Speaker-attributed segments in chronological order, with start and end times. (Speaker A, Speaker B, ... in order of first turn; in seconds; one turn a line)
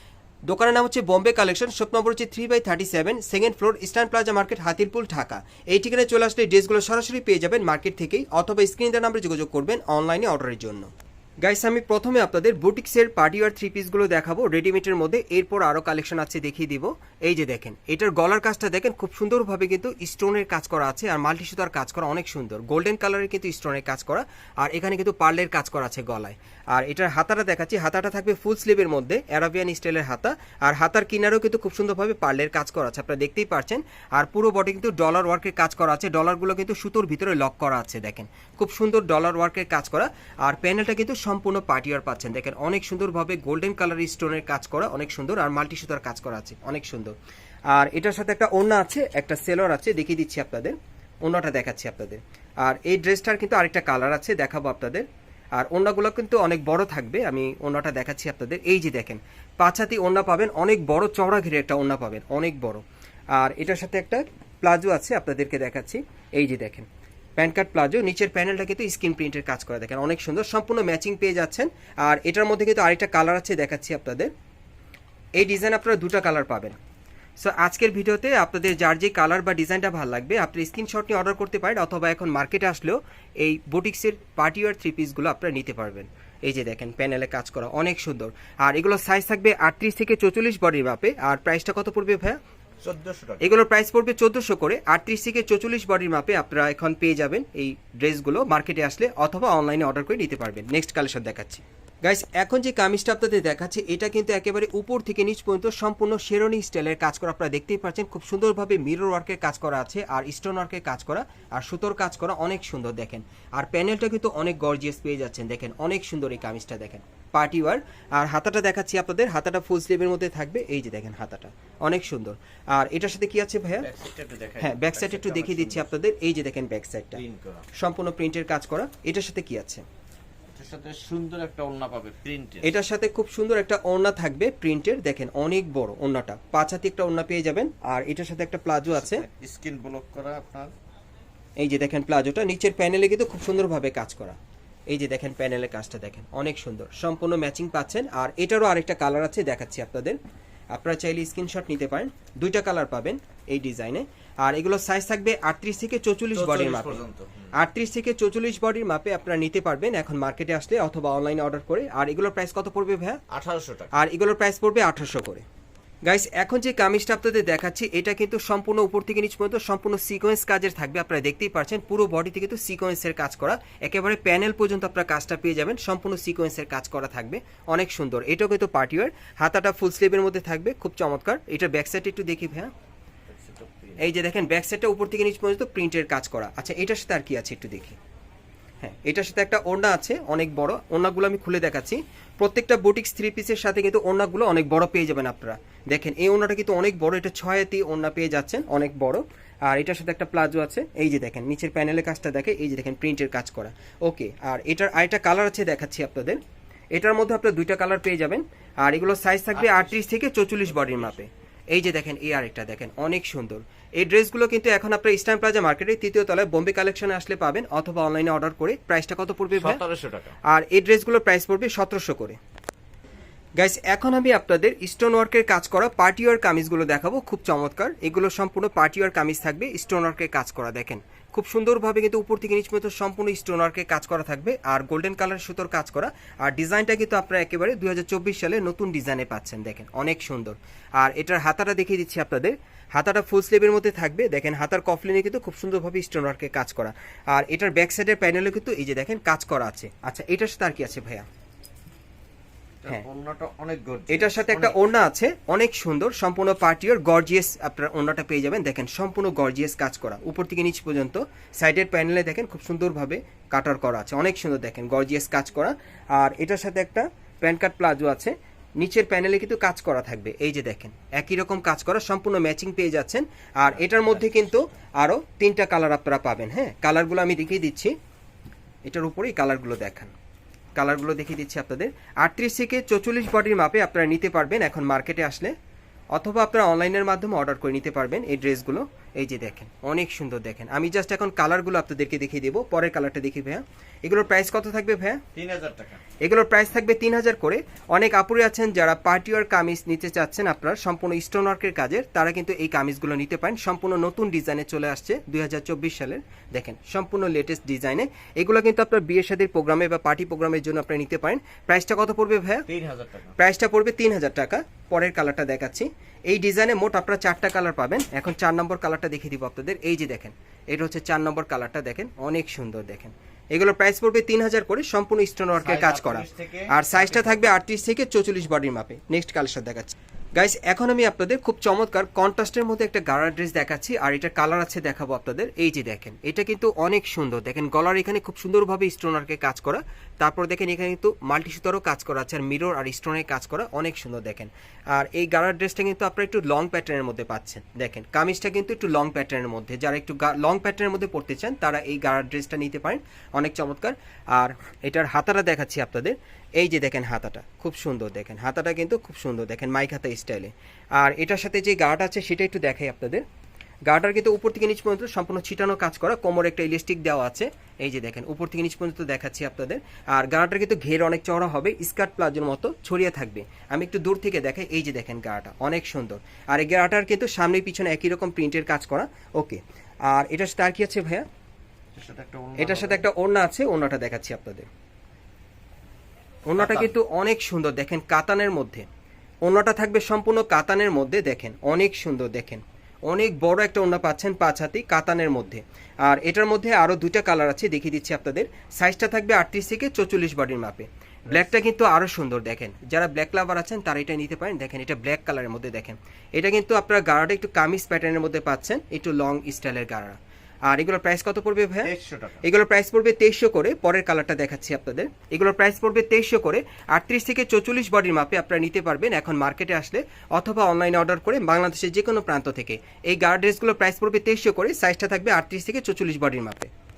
Speaker A: 0.5-10.9
Speaker A: 11.4-47.1
Speaker A: 47.7-62.8
Speaker A: 63.3-74.3
Speaker A: 75.4-76.8
Speaker A: 77.4-92.4
Speaker B: 92.8-93.6
Speaker A: 93.4-123.9
Speaker B: 123.8-125.9
Speaker A: 124.6-127.2
Speaker B: 127.1-127.7
Speaker A: 127.8-129.8
Speaker B: 130.5-132.7
Speaker A: 132.6-139.2
Speaker B: 138.9-140.7
Speaker A: 141.6-144.4
Speaker A: 144.9-150.2
Speaker A: 150.7-163.2
Speaker B: 156.3-157.5
Speaker B: 163.3-163.9
Speaker A: 163.9-165.4
Speaker A: 166.1-182.7
Speaker B: 183.3-184.1
Speaker A: 184.0-188.0
Speaker A: 188.8-206.4
Speaker A: 206.9-219.8
Speaker B: 209.6-211.2
Speaker B: 219.5-220.4
Speaker A: 220.4-222.4
Speaker A: 223.6-251.3
Speaker B: 252.8-254.8
Speaker A: 254.1-277.9
Speaker B: 273.9-274.2
Speaker A: 278.9-280.1
Speaker A: 280.8-285.5
Speaker A: 286.1-295.2
Speaker B: 295.3-296.0
Speaker A: 296.2-312.7
Speaker B: 312.7-313.4
Speaker A: 313.4-363.2
Speaker B: 325.6-327.4
Speaker A: 363.9-381.2
Speaker B: 382.0-383.1
Speaker A: 382.6-384.7
Speaker A: 386.5-388.9
Speaker B: 386.6-386.9
Speaker A: 389.4-411.9
Speaker B: 411.8-412.4
Speaker A: 412.4-426.7